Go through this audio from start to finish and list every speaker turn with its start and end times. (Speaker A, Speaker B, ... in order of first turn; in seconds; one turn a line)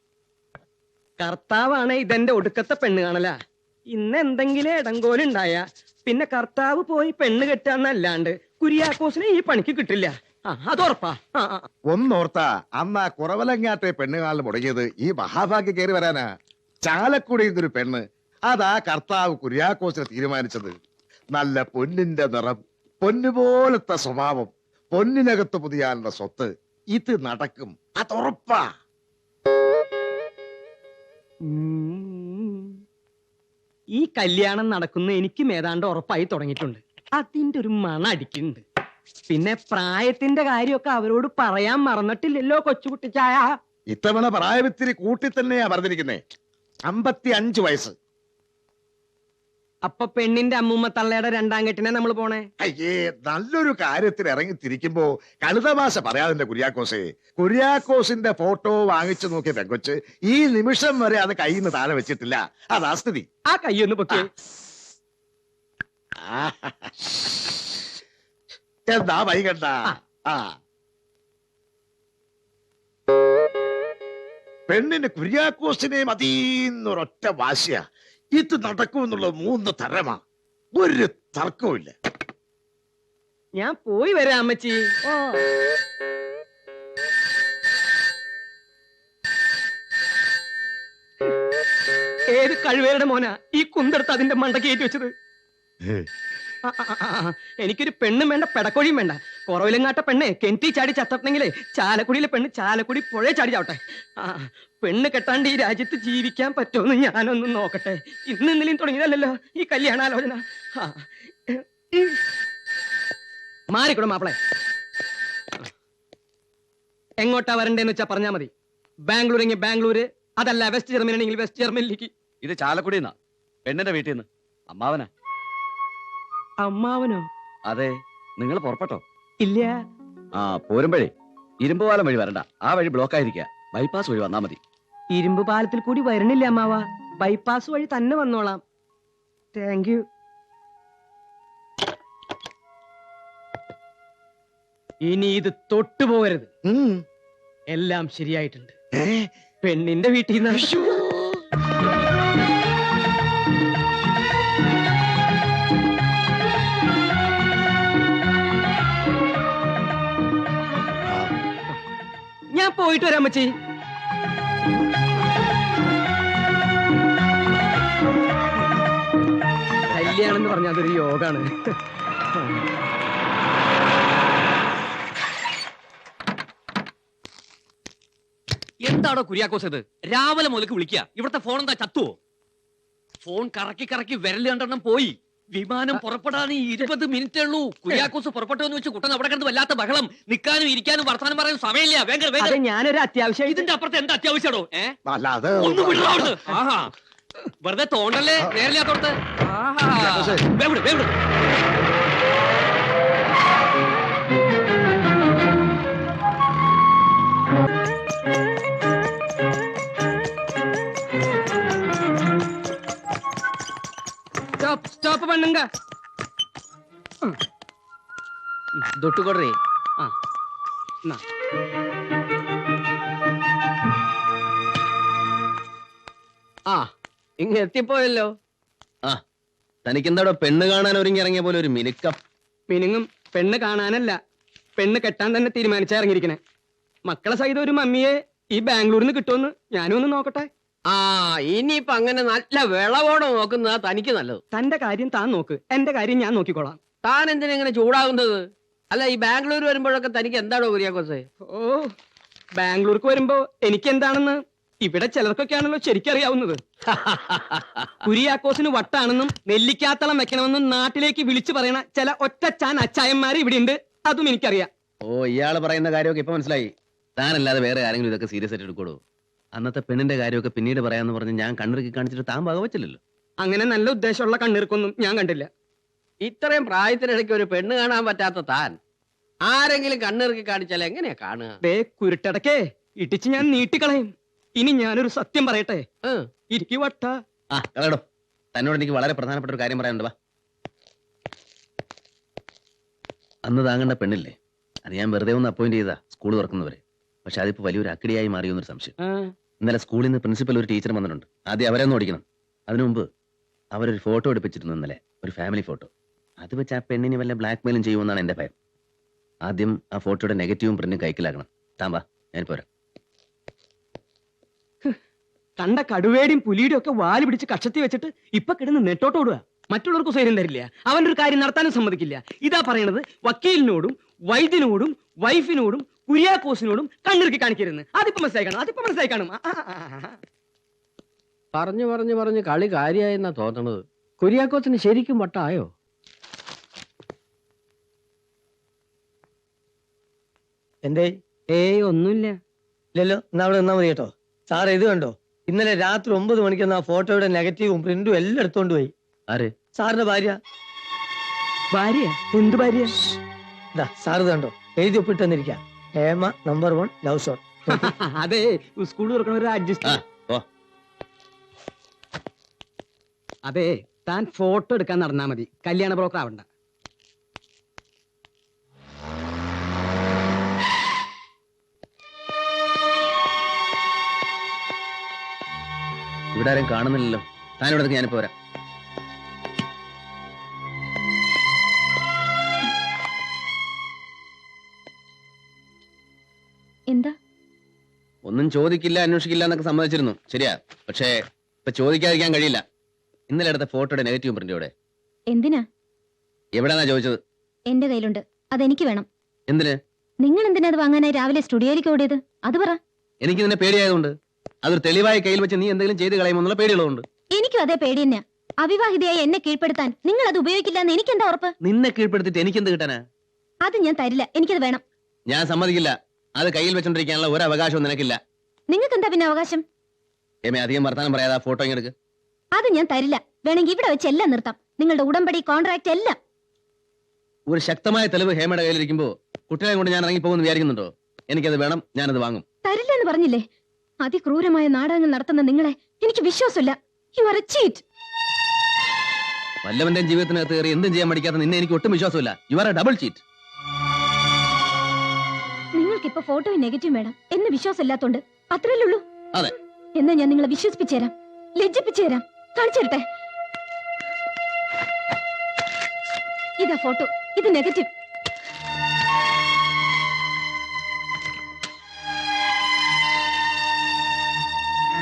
Speaker A: 1.2-3.3
Speaker A: 3.9-11.7
Speaker B: 11.9-16.2
Speaker B: 16.8-20.7
Speaker B: 21.3-28.6
Speaker A: 31.5-32.8
Speaker A: 33.9-38.6
Speaker A: 39.3-43.5
Speaker B: 43.9-46.2
Speaker B: 46.9-47.9
Speaker A: 49.8-52.5
Speaker B: 52.6-63.2
Speaker A: 63.5-64.3
Speaker B: 66.2-66.9
Speaker B: 68.9-70.5
Speaker B: 74.7-77.8
Speaker B: 78.4-80.2
Speaker B: 80.8-81.9
Speaker A: 83.6-84.8
Speaker A: 92.3-95.1
Speaker A: 96.7-112.2
Speaker A: 113.7-114.3
Speaker A: 117.2-118.5
Speaker A: 119.1-122.1
Speaker C: 122.4-122.8
Speaker D: 122.5-123.1
Speaker D: 123.7-125.0
Speaker C: 123.7-124.0
Speaker A: 126.6-127.2
Speaker C: 128.4-128.7
Speaker D: 128.4-129.0
Speaker A: 129.4-129.8
Speaker C: 130.4-130.9
Speaker D: 130.4-131.1
Speaker D: 131.6-134.6
Speaker C: 131.6-134.4
Speaker A: 135.1-138.6
Speaker A: 139.5-140.0
Speaker A: 145.0-146.5
Speaker B: 146.6-147.0
Speaker A: 147.7-148.7
Speaker B: 149.0-149.3
Speaker A: 149.6-150.7
Speaker B: 150.5-151.3
Speaker A: 162.5-163.5
Speaker A: 169.9-171.7
Speaker C: 178.8-182.1
Speaker C: 183.2-192.5
Speaker A: 192.4-193.7
Speaker C: 193.6-194.9
Speaker B: 195.1-196.4
Speaker C: 195.6-196.9
Speaker C: 197.6-201.1
Speaker B: 200.0-200.4
Speaker A: 214.6-215.7
Speaker E: 219.0-219.6
Speaker E: 227.4-228.3
Speaker F: 229.8-232.2
Speaker A: 232.7-234.2
Speaker A: 234.8-236.4
Speaker A: 237.1-240.5
Speaker E: 240.9-244.4
Speaker A: 244.5-246.8
Speaker E: 247.0-251.2
Speaker A: 251.4-251.9
Speaker A: 252.6-256.6
Speaker A: 258.0-264.7
Speaker F: 265.0-269.0
Speaker F: 269.5-273.0
Speaker A: 273.4-275.5
Speaker E: 276.2-278.8
Speaker E: 279.4-281.6
Speaker A: 281.6-285.9
Speaker A: 286.5-287.1
Speaker F: 287.5-288.0
Speaker F: 288.5-290.1
Speaker F: 293.4-298.9
Speaker F: 299.6-303.1
Speaker F: 303.7-305.9
Speaker F: 306.4-308.5
Speaker F: 309.4-312.6
Speaker A: 315.6-330.1
Speaker E: 331.5-335.7
Speaker G: 340.8-341.2
Speaker A: 341.5-342.4
Speaker G: 342.9-348.9
Speaker G: 349.7-350.4
Speaker A: 351.7-353.0
Speaker G: 353.7-357.9
Speaker A: 357.7-360.0
Speaker F: 359.8-360.4
Speaker A: 363.5-366.4
Speaker F: 376.3-378.3
Speaker H: 386.9-387.1
Speaker F: 388.2-391.1
Speaker F: 391.6-392.6
Speaker F: 393.3-394.7
Speaker H: 395.3-395.6
Speaker F: 396.5-397.2
Speaker H: 397.7-399.1
Speaker F: 399.5-399.8
Speaker H: 400.2-402.8
Speaker F: 403.2-407.0
Speaker H: 407.3-411.5
Speaker F: 411.6-413.0
Speaker H: 413.6-414.8
Speaker F: 415.3-418.2
Speaker H: 418.7-419.6
Speaker F: 420.4-421.9
Speaker H: 422.5-426.1
Speaker F: 427.5-432.4
Speaker H: 432.6-433.4
Speaker H: 434.0-437.8
Speaker F: 439.6-443.2
Speaker H: 445.8-449.0
Speaker H: 450.0-453.0
Speaker H: 456.6-457.9